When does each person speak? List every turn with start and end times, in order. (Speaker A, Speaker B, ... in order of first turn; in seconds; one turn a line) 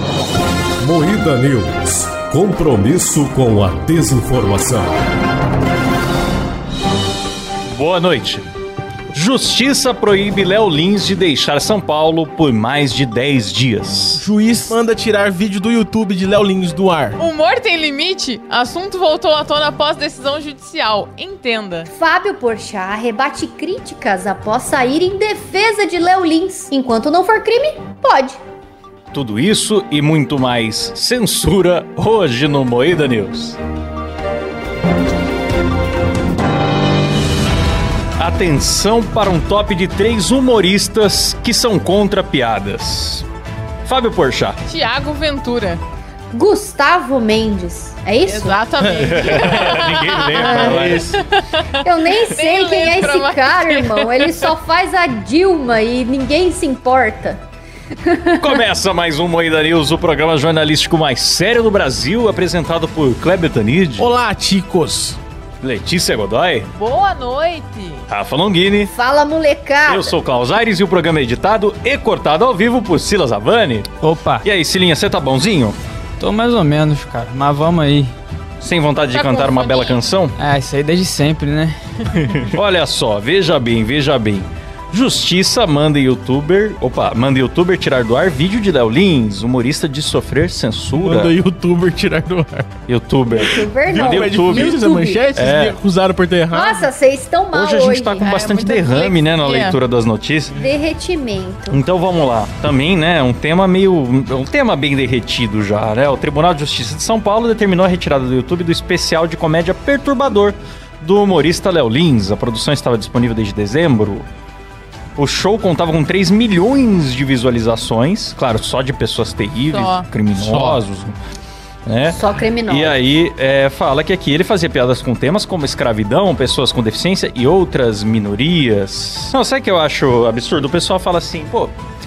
Speaker A: 0.8-4.9
Speaker B: 7.7-8.5
Speaker B: 9.1-14.2
Speaker C: 14.2-17.2
Speaker D: 17.2-21.9
Speaker E: 21.9-28.4
Speaker B: 29.1-33.6
Speaker B: 38.2-43.2
Speaker B: 43.8-44.6
Speaker D: 44.7-45.8
Speaker E: 46.3-48.6
Speaker D: 48.2-54.5
Speaker C: 48.8-49.5
Speaker B: 49.0-51.0
Speaker E: 50.4-51.0
Speaker C: 50.4-51.2
Speaker E: 51.8-57.4
Speaker E: 58.0-58.6
Speaker B: 58.4-64.1
Speaker C: 64.0-65.2
Speaker B: 65.6-66.7
Speaker D: 66.8-68.0
Speaker B: 68.1-68.9
Speaker E: 68.9-70.2
Speaker B: 69.8-73.9
Speaker F: 74.0-74.4
Speaker B: 74.4-75.8
Speaker F: 76.2-78.1
Speaker B: 78.6-80.4
Speaker D: 79.1-80.1
Speaker F: 80.4-81.8
Speaker B: 82.4-91.3
Speaker C: 90.9-92.7
Speaker B: 92.9-94.8
Speaker E: 93.3-95.3
Speaker C: 93.8-96.9
Speaker B: 95.3-95.8
Speaker E: 96.5-98.3
Speaker B: 97.5-100.6
Speaker D: 98.2-99.8
Speaker E: 100.5-101.8
Speaker B: 101.7-114.2
Speaker B: 115.2-121.1
Speaker D: 119.7-120.1
Speaker C: 120.3-120.8
Speaker B: 121.9-131.7
Speaker E: 122.1-123.0